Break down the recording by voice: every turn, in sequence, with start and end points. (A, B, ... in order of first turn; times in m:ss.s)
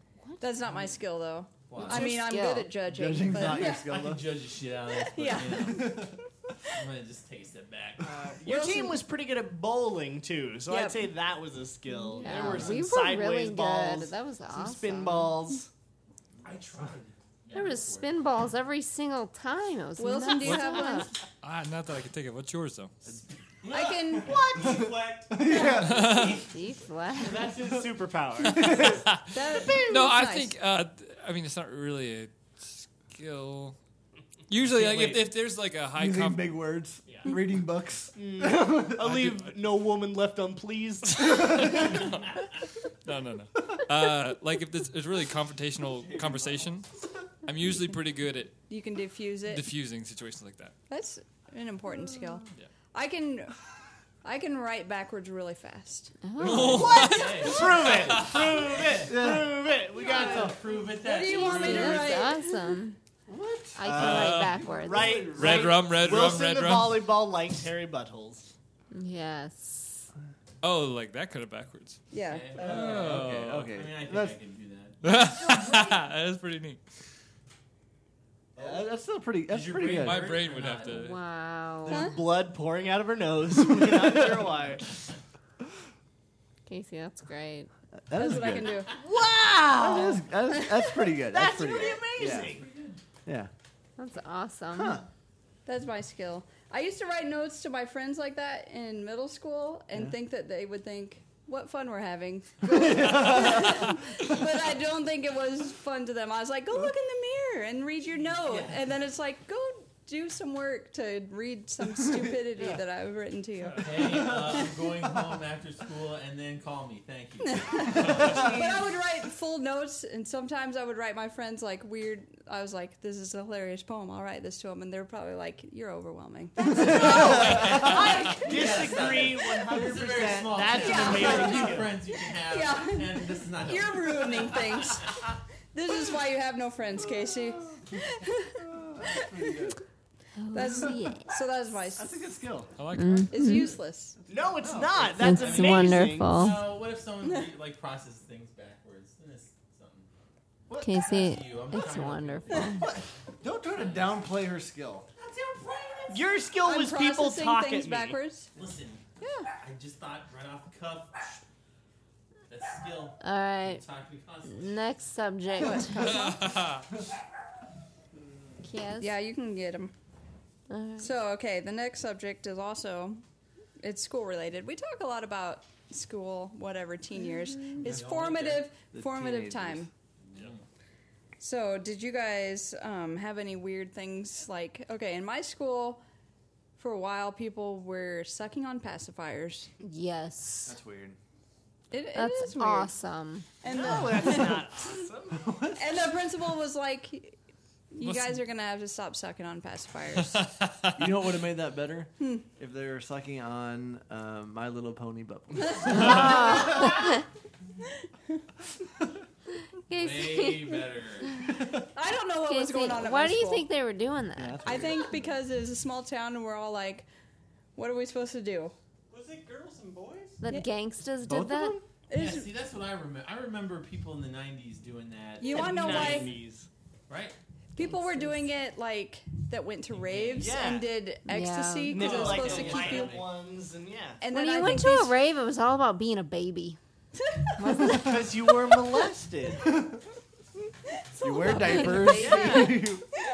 0:00.2-0:00.6 A
0:00.4-0:03.9 B
0:01.7-0:02.2 C
0:01.8-0:02.7 A
0:02.9-0:04.2 D
0:03.4-0:06.1 C
0:04.9-0:06.2 B
0:05.6-0:06.2 D
0:06.7-0:08.1 C
0:08.2-0:15.7 E
0:08.4-0:09.0 B
0:10.7-0:11.1 B
0:11.9-0:15.4 A
0:12.2-0:12.8 C
0:16.4-0:18.2 C
0:17.5-0:21.1 A
0:20.0-0:21.2 B
0:20.4-0:20.8 F
0:21.4-0:23.2 F
0:23.1-0:23.3 C
0:23.6-0:25.5 G
0:23.7-0:24.5 B
0:24.2-0:24.9 E
0:24.6-0:26.4 D
0:25.5-0:26.2 E
0:25.6-0:26.4 F
0:26.2-0:27.5 A
0:27.2-0:29.0 E
0:28.6-0:29.0 D
0:28.8-0:33.8 F
0:29.3-0:30.6 B
0:29.6-0:30.1 E
0:34.5-0:36.5 F
0:34.7-0:35.2 C
0:36.0-0:39.2 D
0:38.2-0:42.0 E
0:39.0-0:39.5 F
0:41.4-0:42.5 F
0:43.0-0:46.9 F
0:45.9-0:46.7 G
0:47.4-0:48.6 F
0:48.7-0:49.7 B
0:49.5-0:50.7 F
0:50.9-0:53.5 B
0:54.2-0:56.1 B
0:56.2-0:57.1 A
0:56.4-0:58.4 F
0:56.5-1:00.5 E
0:57.0-0:59.1 C
0:59.1-0:59.7 D
1:00.0-1:02.5 B
1:00.0-1:02.2 C
1:00.2-1:00.5 D
1:01.2-1:03.0 A
1:03.3-1:06.0 D
1:03.8-1:05.3 A
1:03.9-1:04.6 F
1:04.8-1:08.5 E
1:05.2-1:07.1 F
1:08.9-1:10.1 A
1:10.6-1:12.0 F
1:12.1-1:12.6 B
1:12.3-1:15.0 C
1:12.6-1:14.4 D
1:12.6-1:13.7 F
1:15.0-1:16.8 F
1:15.4-1:15.8 E
1:18.6-1:20.4 D
1:19.5-1:21.0 C
1:19.7-1:21.2 F
1:20.9-1:22.1 A
1:21.9-1:24.9 E
1:21.9-1:22.2 B
1:26.7-1:27.7 A
1:28.1-1:28.8 D
1:28.2-1:28.9 B
1:29.0-1:30.2 E
1:29.8-1:32.6 D
1:31.3-1:32.7 E
1:32.3-1:33.0 C
1:33.3-1:33.5 D
1:34.0-1:35.0 A
1:34.7-1:35.0 D
1:35.7-1:54.0 B
1:42.6-1:44.0 D
1:48.2-1:48.8 C
1:53.8-1:58.8 C
1:57.5-2:08.4 B
2:06.7-2:07.7 D
2:06.7-2:15.1 C
2:06.9-2:11.9 E
2:10.8-2:11.8 B
2:12.4-2:18.6 B
2:18.6-2:19.8 D
2:19.2-2:19.5 B
2:20.4-2:21.3 A
2:20.5-2:22.3 B
2:22.0-2:22.7 D
2:22.8-2:23.7 F
2:23.0-2:23.7 A
2:23.3-2:24.2 B
2:24.3-2:26.6 E
2:24.6-2:25.2 D
2:25.2-2:26.6 A
2:25.2-2:30.1 C
2:30.8-2:32.9 A
2:30.9-2:32.9 C
2:32.5-2:32.8 B
2:32.8-2:35.1 D
2:33.7-2:34.3 C
2:35.2-2:36.3 C
2:36.1-2:38.2 E
2:36.6-2:38.5 B
2:38.6-2:39.0 C
2:39.2-2:39.5 B
2:39.6-2:41.4 C
2:42.5-2:44.7 C
2:43.2-2:43.8 A
2:44.5-2:46.2 A
2:45.6-2:46.7 B
2:46.0-2:46.9 F
2:48.6-2:49.2 A
2:49.0-2:49.9 B
2:50.7-2:51.1 A
2:51.0-2:53.2 B
2:53.8-2:59.9 B
2:57.8-2:58.7 C
2:58.9-2:59.9 D
3:00.3-3:00.6 C
3:01.4-3:06.0 B
3:06.8-3:09.7 B
3:09.8-3:10.8 A
3:10.7-3:11.2 D
3:11.9-3:12.9 B
3:12.1-3:13.5 A
3:13.6-3:15.0 B
3:13.7-3:15.5 E
3:15.3-3:16.2 D
3:15.7-3:17.4 B
3:17.9-3:20.5 B
3:18.0-3:18.4 F
3:20.4-3:21.0 F
3:21.0-3:26.4 D
3:22.2-3:22.5 B
3:25.8-3:26.9 B
3:25.9-3:27.2 A
3:26.3-3:26.9 C
3:29.9-3:30.8 A
3:29.9-3:31.3 C
3:32.0-3:33.7 B
3:32.4-3:35.0 A
3:34.4-3:35.3 D
3:34.6-3:37.1 B
3:37.8-3:38.8 B
3:39.1-3:40.4 G
3:40.4-3:41.8 A
3:40.5-3:40.7 B
3:41.2-3:41.9 D
3:42.1-3:42.5 B
3:42.1-3:46.4 C
3:45.4-3:46.3 B
3:45.5-3:46.7 E
3:47.1-3:47.4 C
3:47.8-3:53.2 B
3:49.9-3:50.6 C
3:50.3-3:50.9 E
3:51.3-3:52.1 A
3:51.9-3:54.2 E
3:51.9-3:53.3 C
3:54.2-3:55.2 B
3:54.3-3:56.8 A
3:57.6-3:58.1 A
3:57.9-3:59.7 E
3:59.7-4:00.0 D
4:01.1-4:03.0 B
4:01.2-4:03.0 D
4:02.0-4:02.8 E